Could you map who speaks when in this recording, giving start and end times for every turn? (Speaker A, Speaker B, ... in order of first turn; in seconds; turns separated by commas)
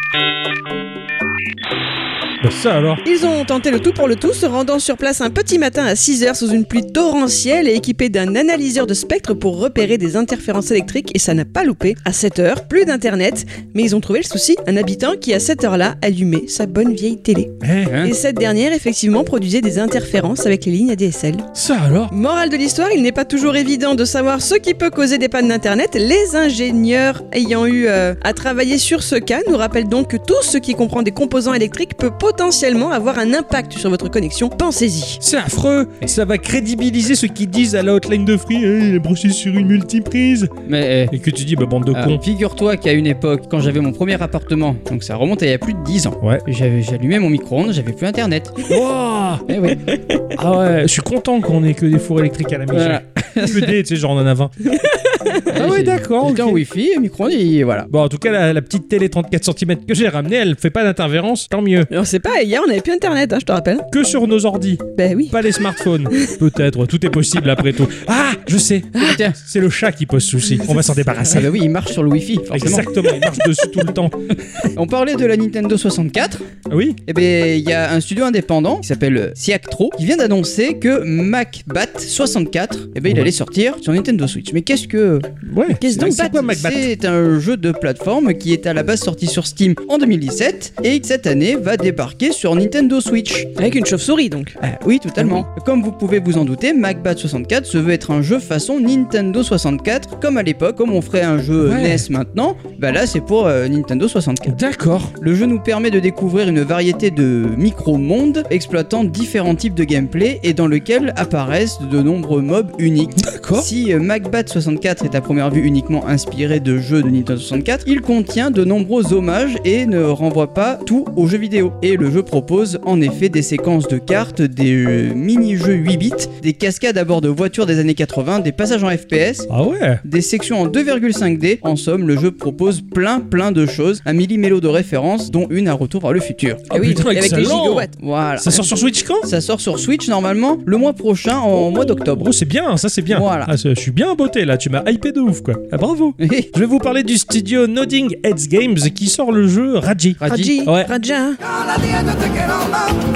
Speaker A: 2.4-3.0, Speaker B: 3.0-21.5, Speaker A: 17.6-18.0, Speaker A: 21.5-22.1, Speaker B: 22.1-35.2, Speaker A: 35.2-40.5, Speaker C: 40.6-41.1, Speaker A: 41.1-42.2, Speaker C: 41.9-48.7, Speaker A: 48.7-49.5, Speaker C: 49.5-49.8, Speaker A: 50.3-54.8, Speaker C: 52.7-53.7, Speaker B: 54.7-55.5, Speaker A: 55.5-56.6, Speaker C: 55.5-57.9, Speaker A: 57.9-61.9, Speaker B: 61.9-63.9, Speaker A: 63.9-71.6, Speaker B: 64.9-65.4, Speaker C: 69.0-69.4, Speaker C: 71.3-73.4, Speaker A: 72.5-74.4, Speaker C: 74.7-76.4, Speaker A: 76.7-77.0, Speaker C: 77.0-85.3, Speaker A: 85.5-86.9, Speaker B: 85.8-86.3, Speaker C: 85.9-93.5, Speaker B: 93.6-94.6, Speaker C: 94.6-104.6, Speaker A: 95.2-95.4, Speaker A: 101.6-102.1, Speaker A: 104.5-105.1, Speaker C: 105.2-129.5, Speaker A: 113.2-113.7, Speaker A: 129.5-130.0, Speaker C: 130.0-137.1, Speaker A: 136.7-139.3, Speaker B: 136.7-137.9, Speaker C: 138.0-138.7, Speaker C: 139.2-142.2, Speaker A: 142.1-150.9, Speaker C: 143.1-143.5, Speaker C: 146.2-146.5, Speaker C: 150.2-150.5, Speaker B: 150.2-151.4, Speaker C: 151.7-152.8